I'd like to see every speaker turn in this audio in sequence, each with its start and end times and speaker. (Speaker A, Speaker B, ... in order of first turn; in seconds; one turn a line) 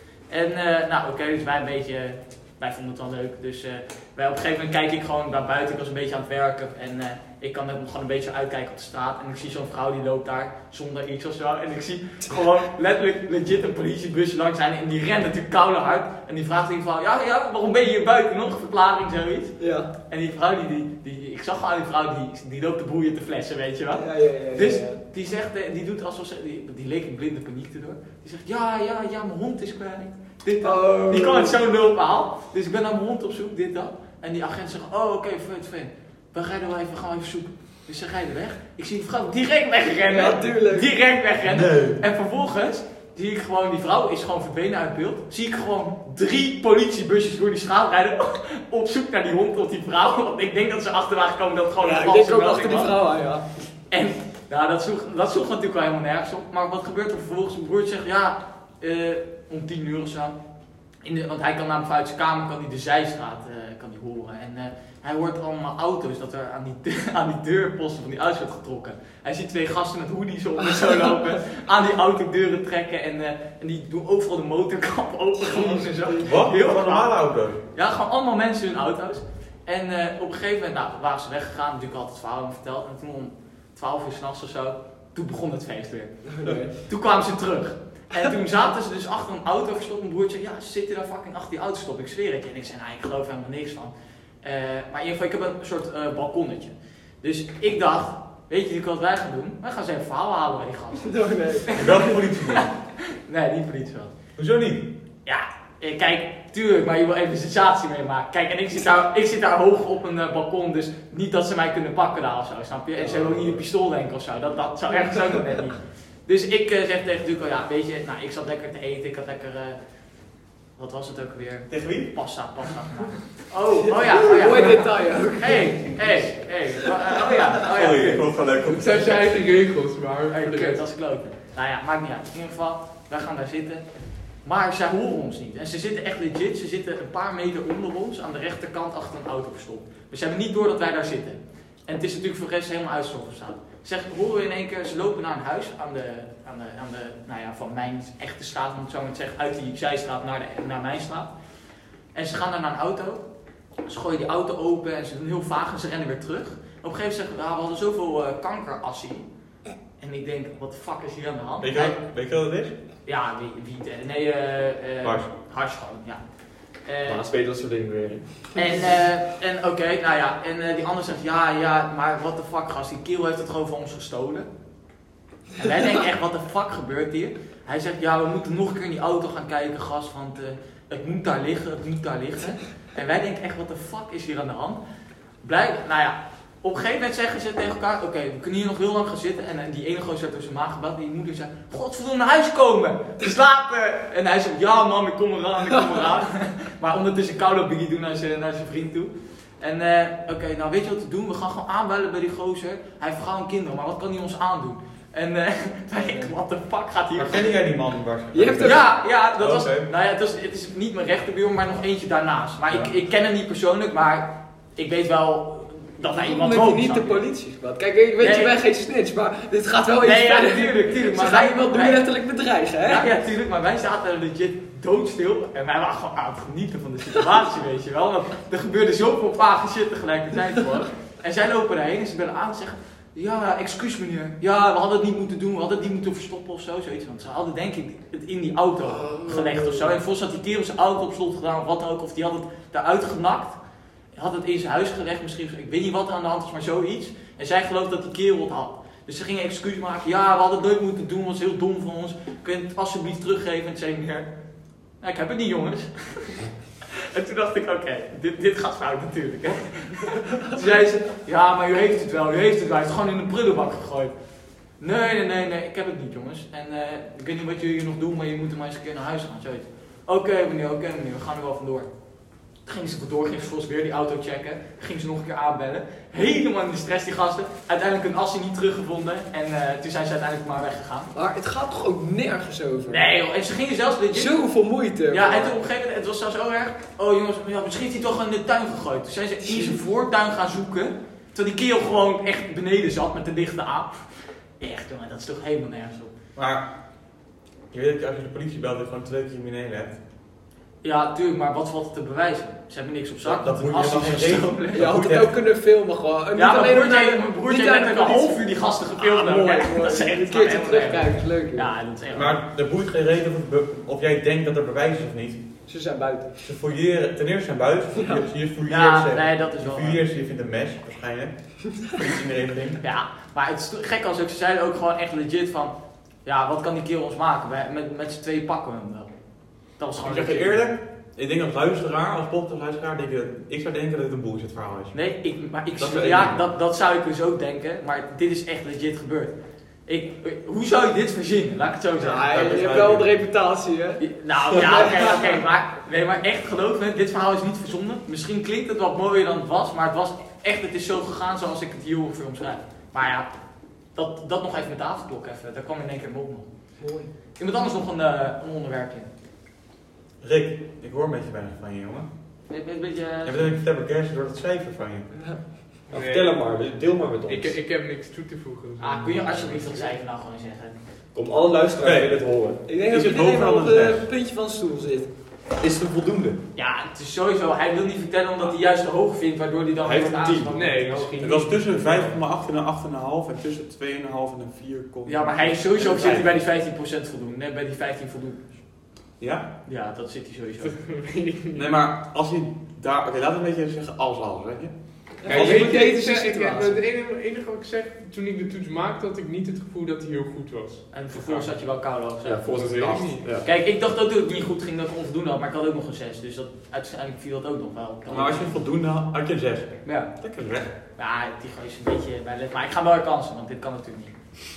Speaker A: 0.3-53.0
Speaker B: 19.6-19.9
Speaker B: 24.0-25.0
Speaker B: 30.6-31.6
Speaker B: 40.1-40.9
Speaker C: 41.5-42.0
Speaker B: 51.8-53.5
Speaker A: 53.9-60.4
Speaker A: 61.0-101.2
Speaker B: 75.4-76.3
Speaker C: 76.1-77.6
Speaker B: 86.3-86.7
Speaker B: 101.0-102.2
Speaker C: 101.8-102.7
Speaker A: 103.2-104.2
Speaker C: 104.4-104.9
Speaker A: 105.2-119.8
Speaker C: 113.0-113.6
Speaker A: 120.8-128.3
Speaker C: 121.7-122.1
Speaker B: 124.2-126.0
Speaker C: 126.0-126.3
Speaker C: 127.7-129.4
Speaker D: 128.7-130.8
Speaker A: 130.3-151.3
Speaker A: 152.1-153.2
Speaker A: 153.8-159.3
Speaker A: 160.0-162.0
Speaker C: 161.6-162.7
Speaker A: 163.1-167.2
Speaker C: 165.0-165.3
Speaker E: 167.1-168.8
Speaker A: 168.6-174.5
Speaker A: 175.6-184.8
Speaker A: 185.4-207.5
Speaker B: 205.9-206.3
Speaker C: 207.2-209.9
Speaker B: 208.3-208.8
Speaker A: 208.6-217.2
Speaker B: 216.1-223.1
Speaker A: 218.2-218.5
Speaker A: 220.0-222.1
Speaker A: 222.9-243.6
Speaker B: 238.9-239.9
Speaker A: 244.1-254.3
Speaker A: 255.0-256.4
Speaker A: 257.0-264.2
Speaker A: 264.7-281.1
Speaker B: 281.1-283.1
Speaker A: 282.9-284.5
Speaker B: 284.1-285.6
Speaker A: 285.1-296.1
Speaker B: 289.4-289.8
Speaker C: 296.4-296.7
Speaker C: 297.7-300.0
Speaker A: 300.8-304.9
Speaker C: 303.2-305.3
Speaker B: 304.7-311.7
Speaker A: 306.4-312.4
Speaker C: 312.1-315.5
Speaker B: 315.7-316.4
Speaker C: 316.4-322.8
Speaker B: 318.0-318.2
Speaker A: 318.7-320.0
Speaker A: 322.8-330.6
Speaker C: 330.0-335.0
Speaker A: 334.9-342.6
Speaker C: 335.8-336.5
Speaker B: 342.0-345.4
Speaker C: 342.3-343.1
Speaker A: 344.0-356.5
Speaker B: 356.8-357.1
Speaker A: 357.4-359.1
Speaker C: 360.2-362.1
Speaker A: 362.5-363.6
Speaker C: 363.2-365.6
Speaker B: 365.1-365.4
Speaker E: 365.9-367.6
Speaker D: 365.9-366.7
Speaker D: 367.2-369.8
Speaker A: 368.8-370.8
Speaker E: 371.1-372.6
Speaker C: 371.8-374.1
Speaker B: 372.6-375.1
Speaker E: 375.6-376.4
Speaker A: 376.6-381.2
Speaker E: 379.8-380.6
Speaker D: 380.5-382.1
Speaker C: 381.2-386.3
Speaker A: 385.1-388.7
Speaker C: 389.2-389.5
Speaker A: 389.6-390.8
Speaker D: 390.6-391.6
Speaker C: 391.5-395.7
Speaker B: 395.2-396.8
Speaker D: 395.2-401.4
Speaker A: 400.9-408.6
Speaker E: 402.2-403.5
Speaker D: 402.5-403.2
Speaker C: 408.1-410.7
Speaker A: 409.9-410.2
Speaker A: 410.9-414.2